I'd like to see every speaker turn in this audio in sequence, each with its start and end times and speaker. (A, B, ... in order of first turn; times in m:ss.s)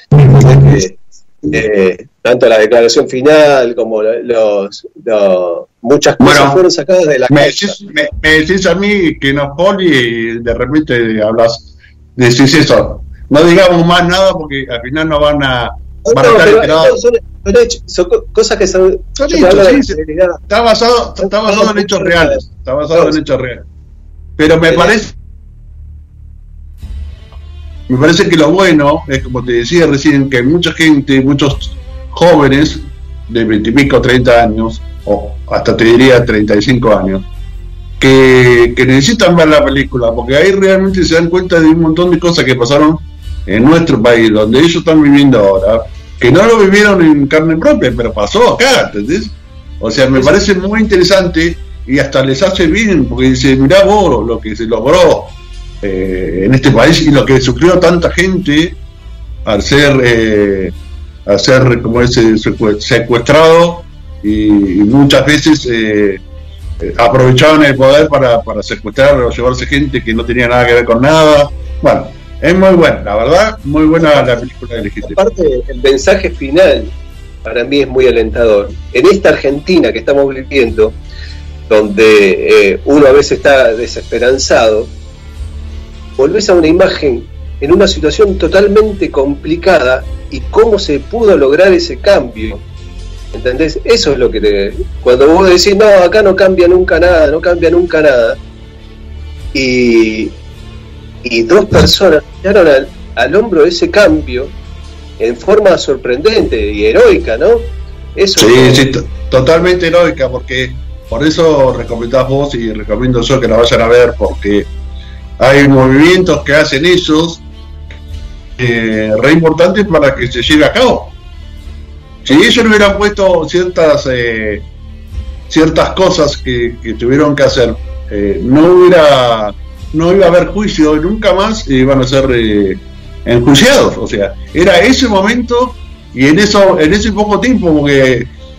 0:00.2-0:07.8 A
0:06.2-0:06.6 B
0:07.3-0:17.0 B
0:16.0-0:20.4 A
0:19.2-0:20.0 B
0:20.5-0:23.7 B
0:21.2-0:23.2 A
0:24.4-0:25.1 B
0:24.7-0:25.0 A
0:27.9-0:37.3 B
0:38.0-0:58.8 B
0:59.4-1:00.8 B
1:01.3-1:06.2 B
1:06.8-1:15.2 B
1:14.0-1:14.3 A
1:15.0-1:16.9 A
1:17.4-1:21.0 A
1:21.7-1:24.9 A
1:26.2-1:32.6 A
1:33.3-1:38.4 A
1:39.5-1:40.4 A
1:41.2-1:44.5 A
1:45.2-1:48.9 A
1:48.4-1:54.7 B
1:55.4-1:57.4 B
1:58.6-2:01.2 B
2:02.2-2:04.7 B
2:05.5-2:18.3 B